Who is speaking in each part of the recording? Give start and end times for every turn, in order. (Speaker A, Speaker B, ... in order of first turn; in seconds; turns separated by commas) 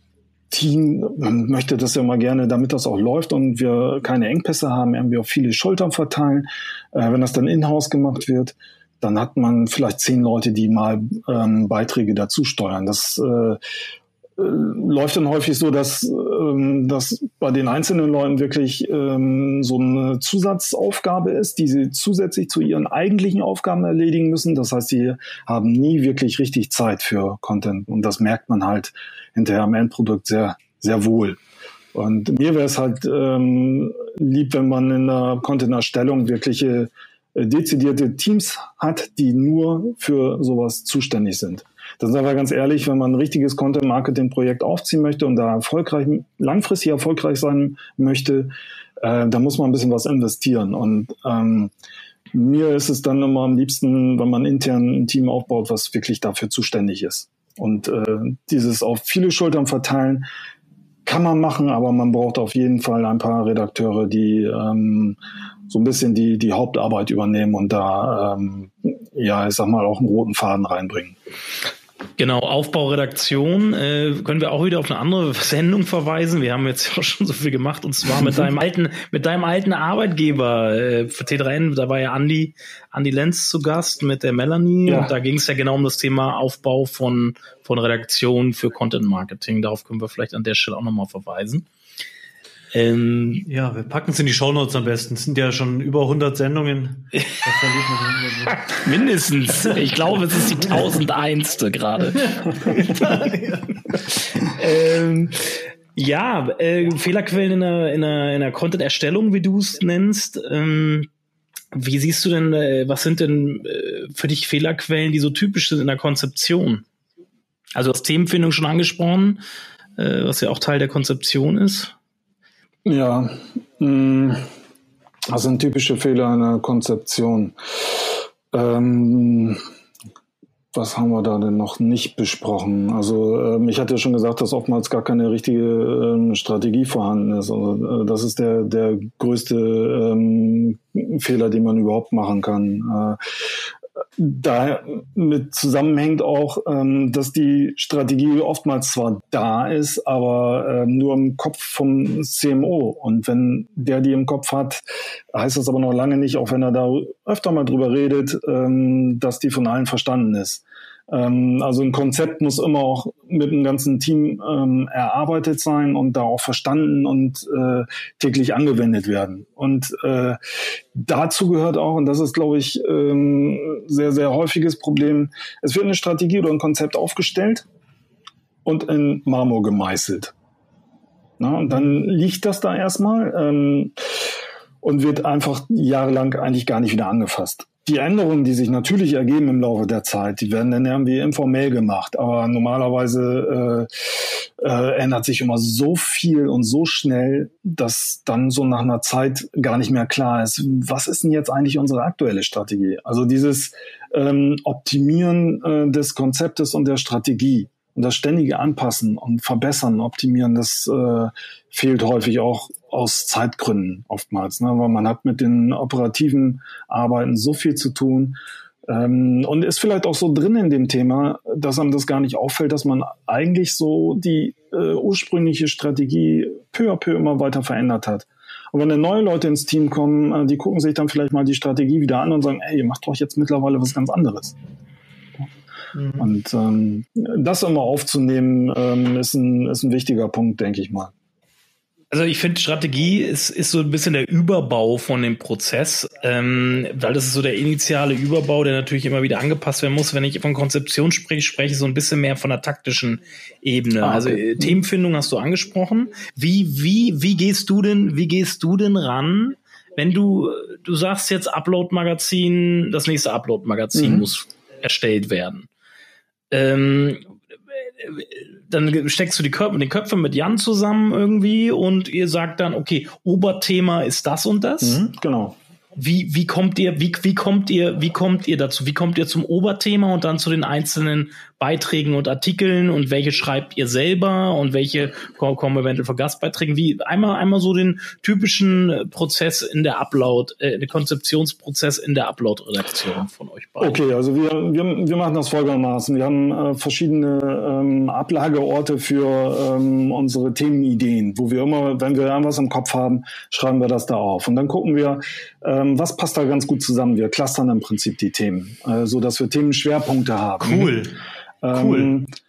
Speaker A: 0.5-13.6, Speaker A: 14.4-31.4, Speaker A: 31.9-51.7, Speaker A: 52.3-60.3, Speaker A: 61.0-65.2, Speaker A: 65.7-71.2, Speaker B: 72.2-91.7, Speaker A: 84.8-85.1, Speaker B: 92.7-93.5, Speaker C: 93.4-98.6, Speaker B: 98.5-103.2, Speaker C: 102.4-103.8, Speaker B: 104.1-111.1, Speaker B: 111.7-116.8, Speaker B: 117.7-119.4, Speaker B: 120.0-121.9, Speaker A: 122.8-124.4, Speaker A: 125.3-129.6, Speaker A: 130.7-143.2, Speaker A: 144.2-170.4, Speaker A: 170.9-177.7, Speaker A: 178.6-180.3, Speaker A: 181.4-184.1, Speaker A: 184.8-234.5, Speaker C: 235.9-236.3, Speaker A: 236.2-241.1, Speaker B: 242.1-265.7, Speaker A: 254.0-254.7, Speaker A: 263.9-264.3, Speaker B: 266.5-275.0, Speaker A: 274.8-275.6, Speaker B: 275.9-294.0, Speaker A: 293.8-311.0, Speaker C: 310.6-311.2, Speaker A: 311.6-312.3, Speaker C: 311.7-312.1